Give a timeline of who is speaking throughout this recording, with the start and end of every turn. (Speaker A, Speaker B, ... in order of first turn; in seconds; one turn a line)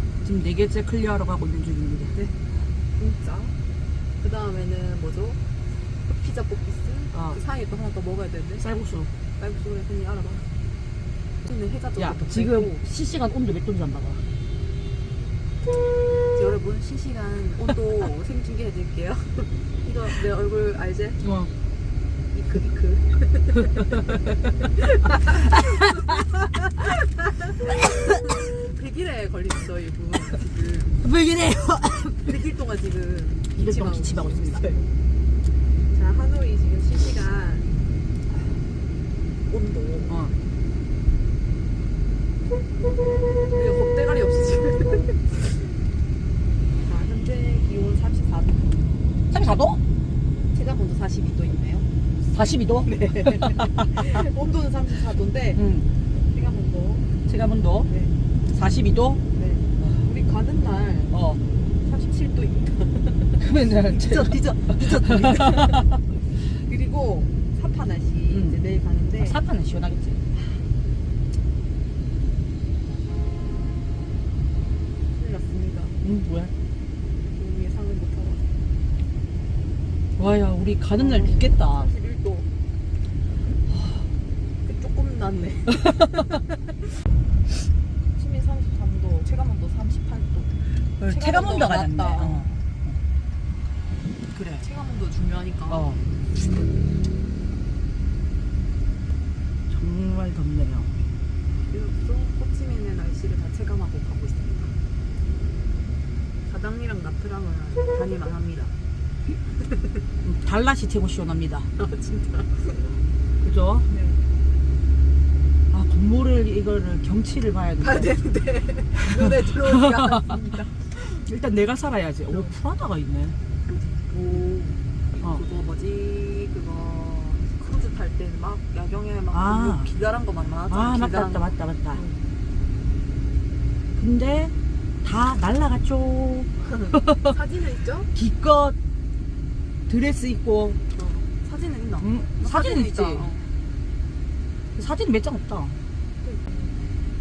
Speaker A: 0.2-2.1
Speaker B: 2.9-3.5
Speaker B: 4.2-5.4
Speaker B: 6.1-8.6
Speaker A: 7.1-7.4
Speaker A: 8.6-9.1
Speaker B: 9.4-10.5
Speaker B: 11.4-12.8
Speaker A: 12.0-14.2
Speaker B: 16.3-21.2
Speaker A: 21.2-21.5
Speaker B: 22.3-31.0
Speaker A: 31.0-32.3
Speaker B: 32.2-34.9
Speaker A: 33.5-34.6
Speaker B: 35.9-37.7
Speaker B: 39.5-40.1
Speaker A: 40.1-40.3
Speaker B: 43.5-45.7
Speaker B: 46.8-48.8
Speaker A: 49.3-49.8
Speaker B: 50.5-51.9
Speaker A: 52.3-54.1
Speaker B: 52.8-55.6
Speaker A: 55.5-55.9
Speaker B: 56.1-57.1
Speaker A: 57.2-57.9
Speaker B: 57.9-58.1
Speaker A: 58.5-59.2
Speaker B: 59.3-61.2
Speaker A: 61.1-61.4
Speaker B: 61.8-69.3
Speaker A: 63.4-65.8
Speaker A: 68.3-68.6
Speaker A: 69.2-70.2
Speaker B: 75.1-76.0
Speaker A: 76.0-76.5
Speaker B: 77.3-78.4
Speaker A: 80.2-81.9
Speaker B: 81.0-82.5
Speaker B: 84.6-86.4
Speaker B: 88.2-92.6
Speaker A: 90.7-93.0
Speaker A: 94.3-94.7
Speaker B: 94.6-95.8
Speaker A: 95.7-96.0
Speaker A: 99.7-101.0
Speaker B: 101.7-104.8
Speaker B: 106.5-108.7
Speaker B: 109.4-110.0
Speaker A: 110.2-111.7
Speaker B: 111.8-113.0
Speaker A: 113.4-113.8
Speaker B: 113.9-114.2
Speaker A: 115.7-118.1
Speaker B: 117.8-120.8
Speaker A: 120.9-123.3
Speaker B: 123.7-132.2
Speaker A: 129.3-129.9
Speaker A: 130.7-132.0
Speaker A: 134.0-137.3
Speaker B: 136.6-138.1
Speaker A: 138.1-138.8
Speaker A: 139.9-140.8
Speaker B: 140.9-143.5
Speaker A: 142.0-143.3
Speaker A: 144.8-145.8
Speaker B: 146.2-146.8